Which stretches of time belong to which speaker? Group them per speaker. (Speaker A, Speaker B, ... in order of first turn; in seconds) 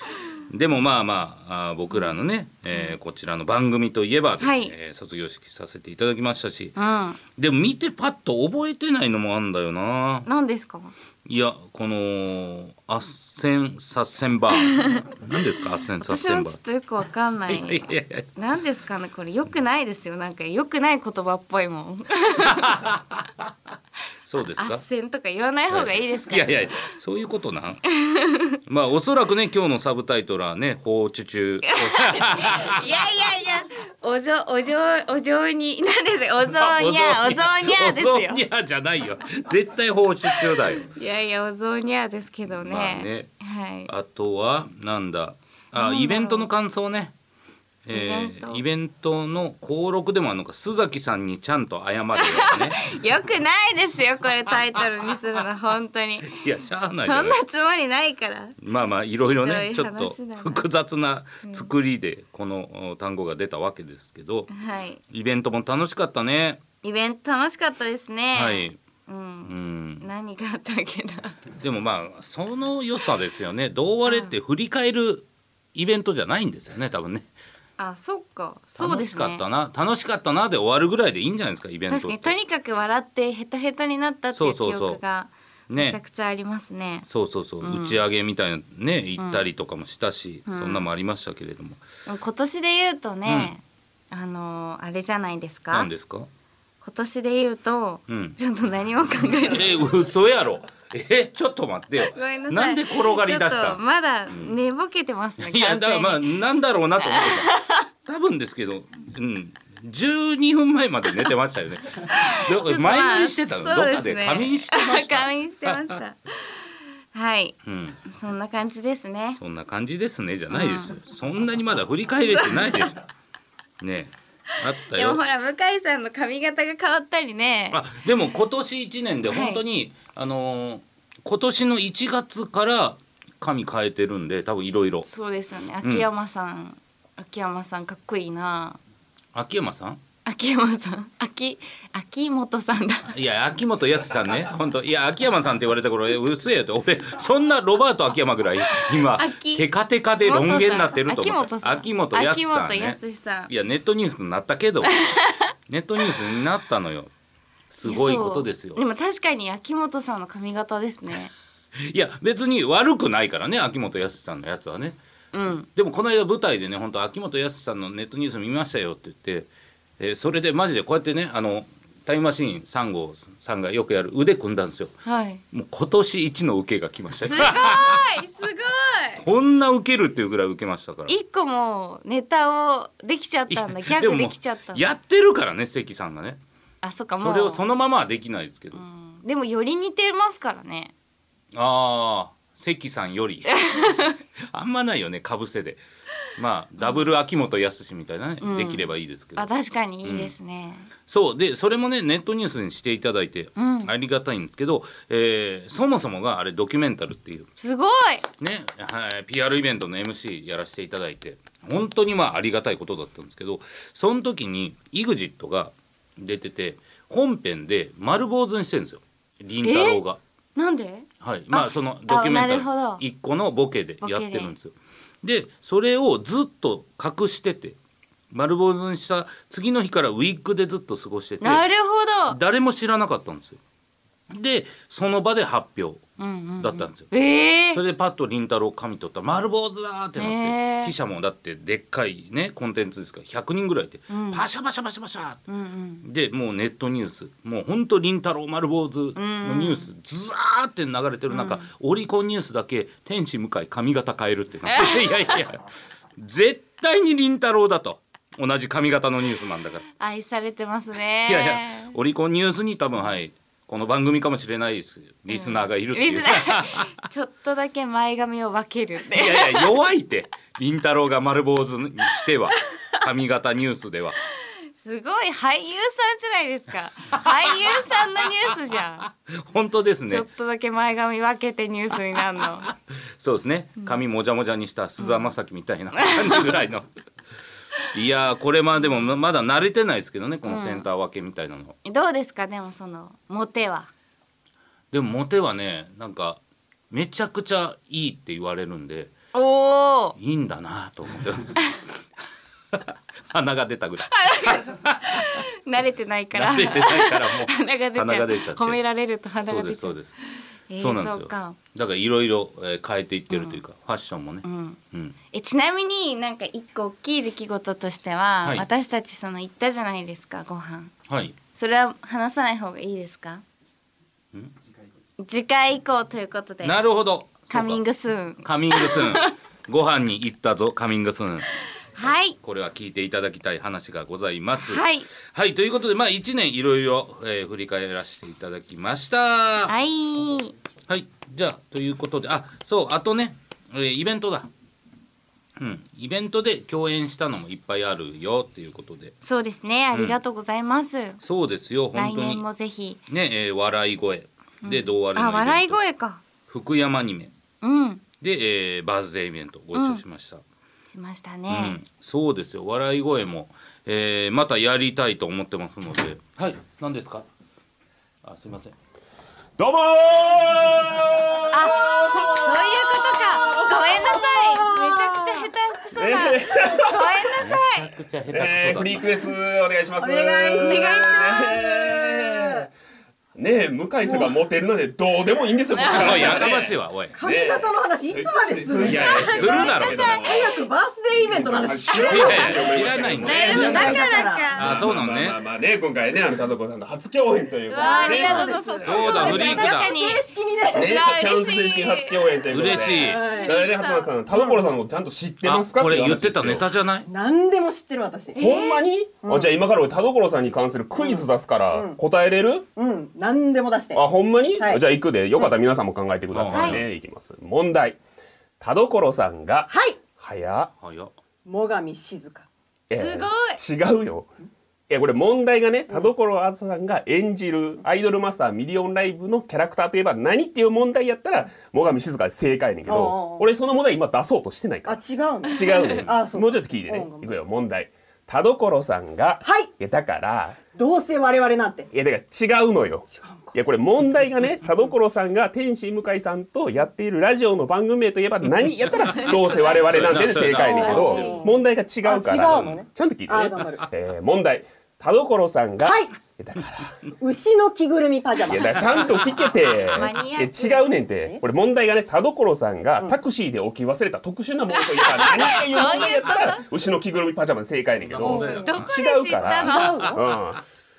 Speaker A: 0.5-6.8, 7.4-10.3, 11.2-16.6, 17.5-18.3, 22.4-23.3, 24.2-24.8, 25.7-27.8, 28.6-32.8, 36.5-40.9, 42.5-43.3, 43.9-47.1, 47.9-52.9, 56.2-57.4, 58.6-64.5, 65.1-66.6, 68.3-68.8, 69.5-70.0, 71.6-77.3, 78.8-82.3, 84.3-85.0, 85.7-86.0, 87.1-91.8, 93.2-93.5, 95.7-96.3, 98.1-98.4, 99.3-104.5, 105.4-107.5, 108.0-115.9, 117.6-118.0, 119.4-123.0, 123.8-125.2, 127.7-135.1, 139.3-140.0, 143.1-155.0, 155.7-157.1, 157.7-158.8, 161.8-165.0, 165.8-174.9, 175.5-178.0, 179.2-181.1, 183.5-186.4, 187.2-188.8, 191.5-193.6, 194.5-195.8, 196.4-199.5, 200.0-200.3, 201.1-207.5, 208.4-220.2, 221.2-227.8, 228.3-231.6, 232.3-233.6, 234.3-236.0, 236.6-237.1, 237.7-245.4, 246.0-259.9, 261.3-266.9, 269.1-274.2, 277.2-278.0, 279.3-280.2, 282.7-286.9, 287.9-291.8, 294.9-296.4, 296.9-299.1, 300.2-302.0, 302.7-305.4, 306.3-308.8, 309.4-310.1, 310.8-315.1, 321.1-321.4, 326.6-327.8, 328.4-339.7, 340.9-344.5, 345.6-349.1, 349.9-350.2, 351.2-352.4, 353.1-355.8, 356.5-357.3, 358.2-360.4, 361.5-367.2, 368.2-368.7, 377.4-379.1, 385.9-387.1, 388.8-390.1, 392.1-395.4, 398.9-399.9, 402.5-403.2, 405.4-407.1, 416.3-416.9, 420.8-421.1, 448.8-451.2, 452.4-452.8, 468.0-468.9, 469.8-470.1
Speaker B: 4.4-4.7, 6.8-7.2, 10.2-10.9, 14.6-15.1, 16.0-22.8, 24.6-26.9, 27.9-28.6, 31.7-38.4, 40.8-43.9, 45.8-46.5, 47.9-48.6, 52.2-56.4, 57.0-58.5, 59.4-60.6, 61.4-61.7, 64.5-65.0, 66.8-71.4, 74.0-74.3, 77.8-79.4, 81.9-87.1, 87.6-88.0, 89.2-89.4, 90.5-90.9, 92.1-95.9, 96.8-99.7, 102.1-106.3, 107.0-107.8, 112.0-119.4, 120.5-121.0, 122.4-122.9, 124.9-127.8, 129.3-129.6, 135.1-138.8, 140.2-143.1, 149.2-149.7, 150.2-153.5, 154.9-155.5, 157.8-161.3, 165.3-165.7, 175.0-175.4, 177.2-179.2, 181.1-184.8, 186.8-187.6, 188.7-190.9, 193.5-194.2, 196.8-197.1, 198.4-200.9, 203.6-203.9, 207.6-208.2, 219.6-220.0, 220.6-223.0, 224.0-224.5, 231.4-232.4, 236.2-237.8, 240.2-240.9, 244.1-244.4, 245.5-246.0, 249.2-249.9, 251.3-251.7, 254.7-255.1, 260.0-261.9, 265.3-269.7, 274.8-279.1, 280.1-282.7, 285.0-285.3, 286.0-286.6, 290.4-290.9, 291.9-293.9, 299.3-300.1, 304.1-310.0, 310.7-311.6, 313.3-313.6, 314.4-314.8, 315.3-320.9, 321.5-323.4, 325.2-326.8, 327.5-329.3, 331.9-332.4, 334.6-335.1, 339.7-340.5, 349.2-351.2, 351.9-353.0, 354.6-356.2, 357.6-358.0, 359.7-360.0, 360.9-361.8, 371.5-377.9, 380.6-381.6, 385.7-386.2, 389.0-390.6, 391.9-392.6, 393.2-394.7, 397.7-402.2, 403.4-404.1, 408.4-408.8, 416.5-416.8, 422.9-423.6, 450.6-451.5, 459.9-460.9, 464.8-466.6, 468.3-470.1
Speaker C: 369.6-374.3, 375.9-377.3, 378.3-382.7, 383.4-390.5, 391.2-399.6, 400.7-406.7, 408.4-412.6, 413.9-418.0, 418.6-420.7, 422.9-424.3, 424.9-440.6, 441.9-457.0, 458.5-470.6
Speaker D: 373.9-375.4, 380.0-382.7, 384.0-384.3, 387.1-394.5, 397.8-401.0, 402.7-403.6, 404.3-404.8, 407.1-408.5, 409.2-409.5, 410.9-412.0, 412.8-414.0, 419.7-420.0, 421.4-422.5, 432.9-433.5, 434.9-437.3, 439.4-439.7, 440.7-441.9, 443.1-443.6, 450.4-453.9, 455.8-456.1, 457.2-459.3, 460.8-461.4, 468.2-468.8, 469.4-470.3